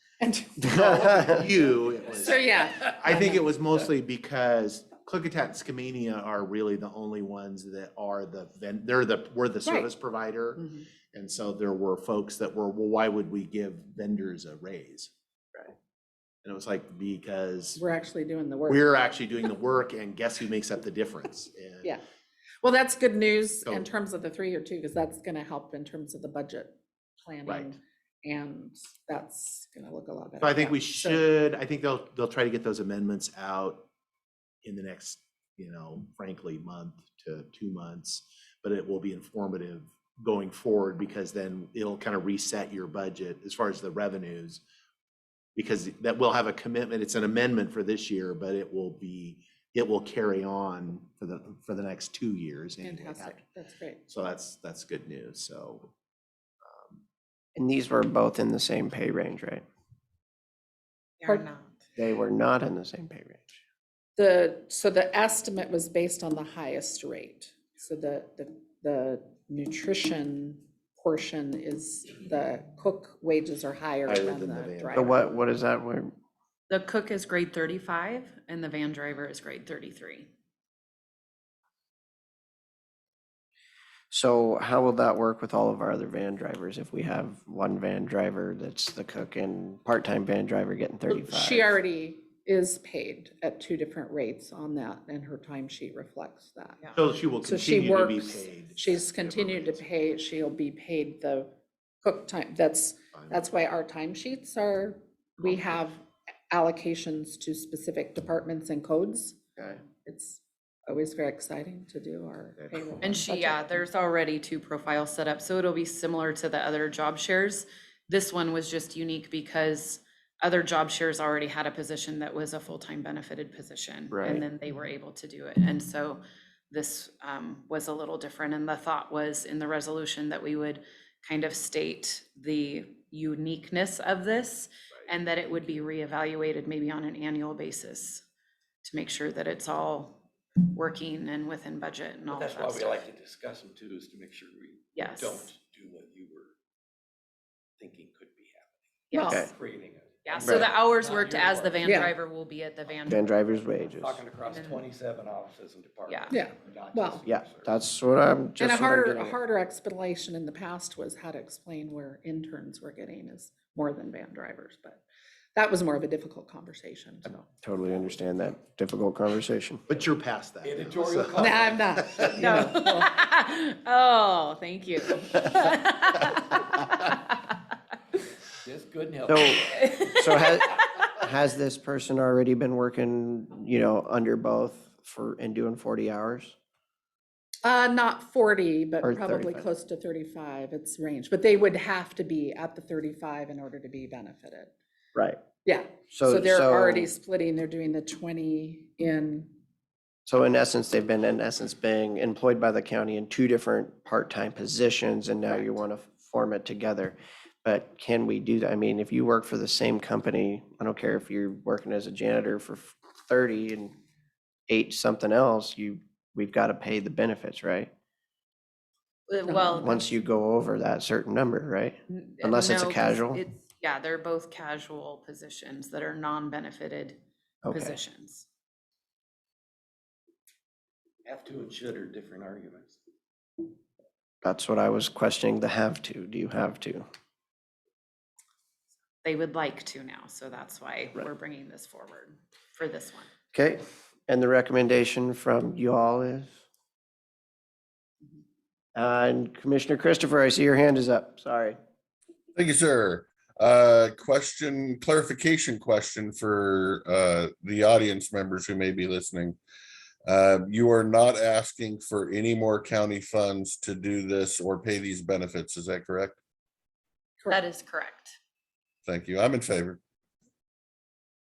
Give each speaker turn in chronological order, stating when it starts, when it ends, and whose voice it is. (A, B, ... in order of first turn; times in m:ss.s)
0:00.2-0:01.3 A
0:00.6-0:15.1 B
0:02.1-0:03.5 A
0:09.6-0:09.9 A
0:10.6-0:10.8 A
0:16.4-0:17.8 B
0:17.8-0:18.9 A
0:18.7-0:21.9 B
0:22.6-0:31.2 A
0:27.5-0:27.7 B
0:30.4-0:33.8 B
0:34.6-0:44.6 B
0:45.6-0:53.4 B
0:52.8-0:54.0 A
0:54.1-0:55.9 B
0:56.6-0:57.0 B
0:57.6-0:59.6 C
1:01.2-1:01.7 D
1:02.0-1:03.6 C
1:04.2-1:15.1 A
1:14.1-1:15.2 B
1:14.9-1:16.1 C
1:16.7-1:20.3 D
1:24.1-1:31.7 C
1:31.1-1:36.8 A
1:37.0-1:39.8 B
1:37.4-1:41.5 A
1:42.0-1:49.4 A
1:43.2-1:43.4 B
1:50.0-1:53.8 A
1:52.6-1:52.8 B
1:53.0-2:18.2 D
2:04.1-2:04.4 C
2:18.8-2:23.1 D
2:22.3-2:26.5 E
2:24.9-2:25.5 D
2:27.8-2:28.8 E
2:29.1-2:29.6 D
2:29.1-2:29.5 A
2:29.5-2:32.0 E
2:30.2-2:33.3 D
2:30.4-2:30.7 C
2:31.8-2:32.1 A
2:33.1-2:34.2 C
2:33.9-2:37.8 E
2:34.4-2:34.8 D
2:36.1-2:36.4 D
2:36.3-2:37.2 A
2:37.2-2:39.4 C
2:38.6-2:45.0 A
2:45.6-2:47.5 A
2:47.6-2:49.8 C
2:49.9-2:52.6 B
2:50.6-2:52.4 E
2:51.3-2:53.1 A
2:52.4-2:57.5 D
2:58.6-2:59.9 E
2:59.3-3:06.6 C
2:59.5-3:00.9 D
3:07.6-3:14.7 A
3:09.0-3:09.6 C
3:15.2-3:15.4 C
3:15.6-3:19.5 A
3:16.1-3:17.1 C
3:20.3-3:34.0 C
3:34.7-3:37.9 C
3:39.3-3:40.1 D
3:39.5-3:39.8 A
3:39.8-3:43.4 C
3:42.1-3:48.5 D
3:47.6-3:48.0 C
3:51.2-3:53.0 E
3:54.4-3:57.1 C
3:59.2-4:03.3 D
4:03.5-4:06.6 C
4:09.0-4:11.8 C
4:12.6-4:19.6 F
4:20.3-4:26.4 F
4:27.5-4:28.4 D
4:29.1-4:30.0 F